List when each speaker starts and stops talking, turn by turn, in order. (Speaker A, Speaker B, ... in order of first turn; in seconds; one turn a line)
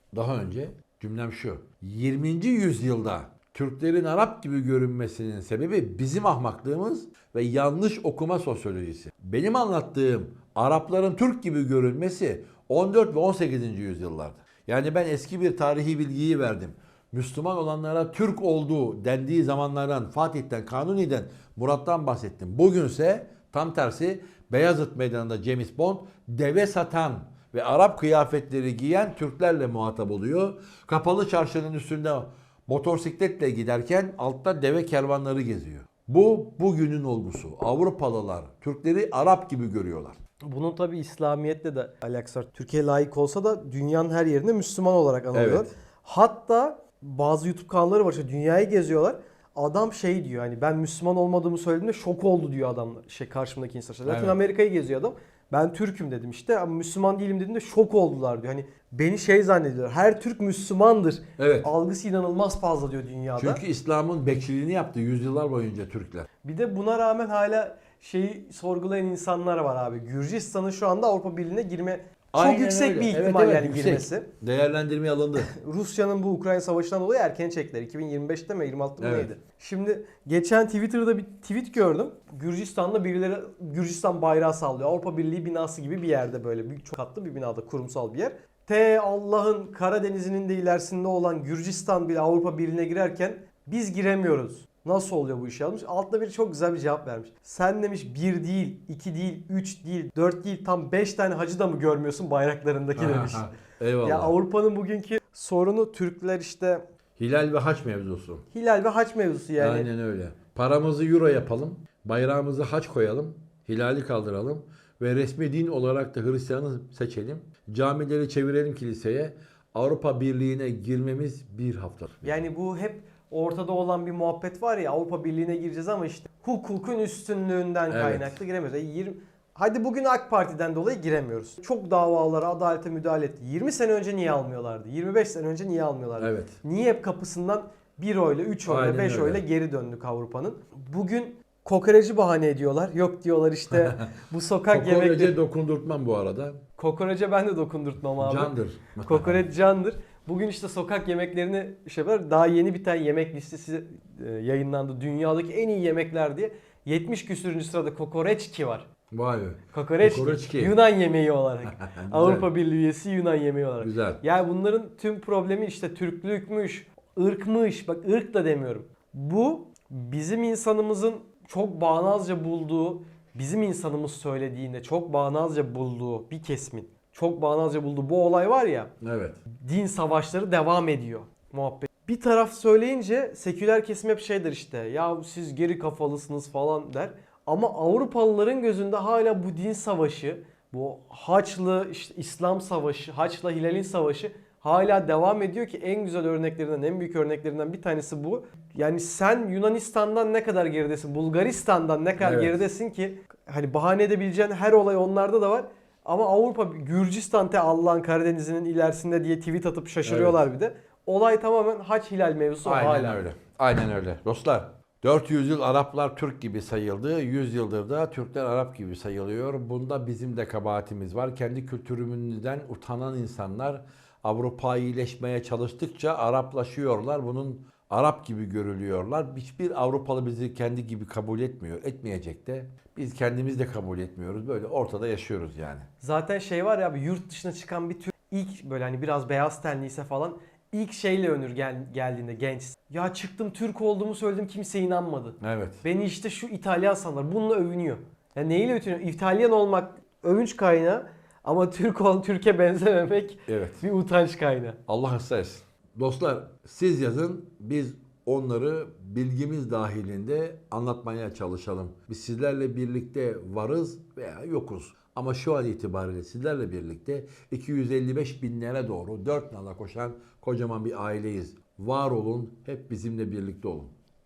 Speaker A: 0.1-40.2
Speaker B: 40.5-63.6
Speaker A: 45.3-45.7
Speaker A: 54.0-54.4
Speaker A: 61.4-61.7
Speaker A: 63.4-66.3
Speaker B: 66.4-74.3
Speaker A: 72.3-75.5
Speaker B: 75.4-103.5
Speaker A: 79.0-79.3
Speaker A: 103.0-104.3
Speaker B: 104.0-106.8
Speaker A: 107.2-108.4
Speaker B: 108.5-109.9
Speaker A: 109.6-122.4
Speaker B: 122.2-145.3
Speaker A: 127.9-128.4
Speaker A: 136.2-136.6
Speaker A: 138.7-139.4
Speaker A: 143.7-144.0
Speaker A: 144.7-146.6
Speaker B: 146.8-158.9
Speaker A: 148.2-149.4
Speaker A: 159.1-160.8
Speaker B: 159.7-178.9
Speaker A: 161.7-162.5
Speaker A: 163.8-164.2
Speaker A: 179.0-179.4
Speaker B: 179.6-213.2
Speaker A: 202.2-202.6
Speaker A: 210.0-210.4
Speaker A: 212.7-235.9
Speaker B: 236.0-254.8
Speaker A: 245.4-245.8
Speaker A: 253.5-253.8
Speaker A: 254.9-273.9